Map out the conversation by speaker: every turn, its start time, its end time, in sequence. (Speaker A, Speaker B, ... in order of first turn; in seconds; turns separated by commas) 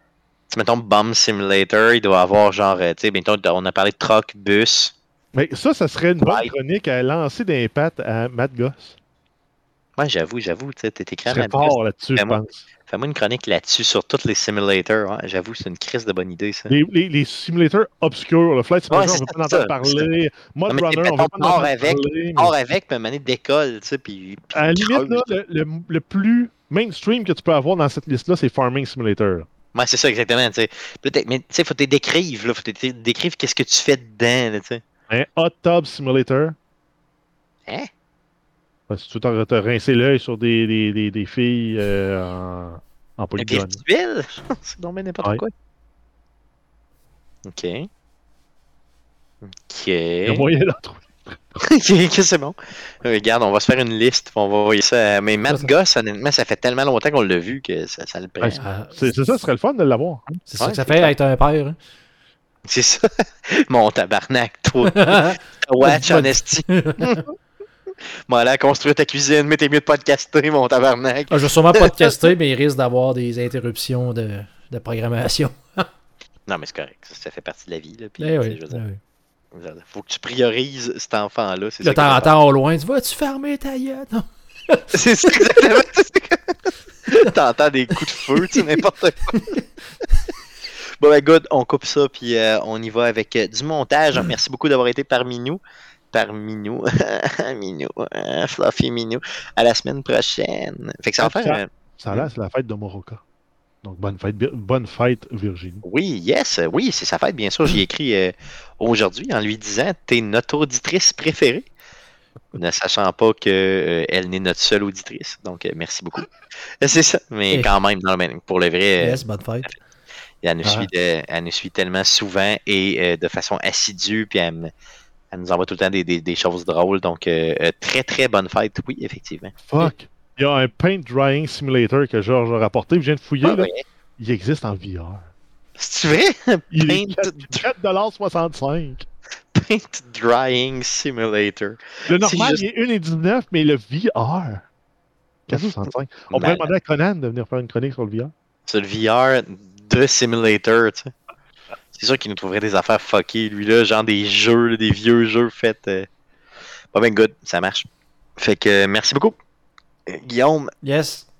Speaker A: 0.5-4.9, Speaker B: 5.3-9.0, Speaker A: 6.2-6.5, Speaker A: 10.0-12.4, Speaker B: 11.3-12.6, Speaker A: 12.9-16.7, Speaker B: 16.7-22.5, Speaker A: 18.9-20.1, Speaker A: 20.7-25.3, Speaker B: 24.5-29.5, Speaker A: 29.7-34.8, Speaker B: 35.1-36.6, Speaker B: 38.9-43.8, Speaker A: 43.4-45.5, Speaker A: 47.5-47.9, Speaker A: 49.4-50.5, Speaker B: 50.2-51.4, Speaker A: 51.8-58.6, Speaker C: 58.4-59.2, Speaker B: 58.9-60.4, Speaker C: 60.5-61.8, Speaker A: 60.6-61.1, Speaker A: 62.7-67.2, Speaker C: 64.8-67.2, Speaker A: 68.3-72.2, Speaker C: 71.3-75.9, Speaker A: 76.5-78.8, Speaker C: 78.2-79.0, Speaker A: 79.5-82.3, Speaker C: 81.8-84.9, Speaker A: 84.9-86.5, Speaker A: 87.1-89.4, Speaker A: 91.0-95.6, Speaker A: 96.1-102.3, Speaker B: 101.2-103.2, Speaker B: 103.8-105.8, Speaker A: 105.8-111.7, Speaker A: 112.5-116.3, Speaker A: 116.8-119.7, Speaker C: 119.0-119.8, Speaker A: 120.4-124.7, Speaker A: 125.3-129.5, Speaker B: 129.7-135.3, Speaker A: 133.4-133.8, Speaker A: 135.8-137.5, Speaker B: 136.7-139.1, Speaker A: 139.5-142.6, Speaker B: 142.1-144.7, Speaker B: 145.5-148.3, Speaker A: 146.3-146.7, Speaker A: 148.7-151.1, Speaker A: 151.9-156.1, Speaker A: 156.9-157.9, Speaker A: 158.4-159.4, Speaker A: 160.1-160.7, Speaker C: 160.8-161.2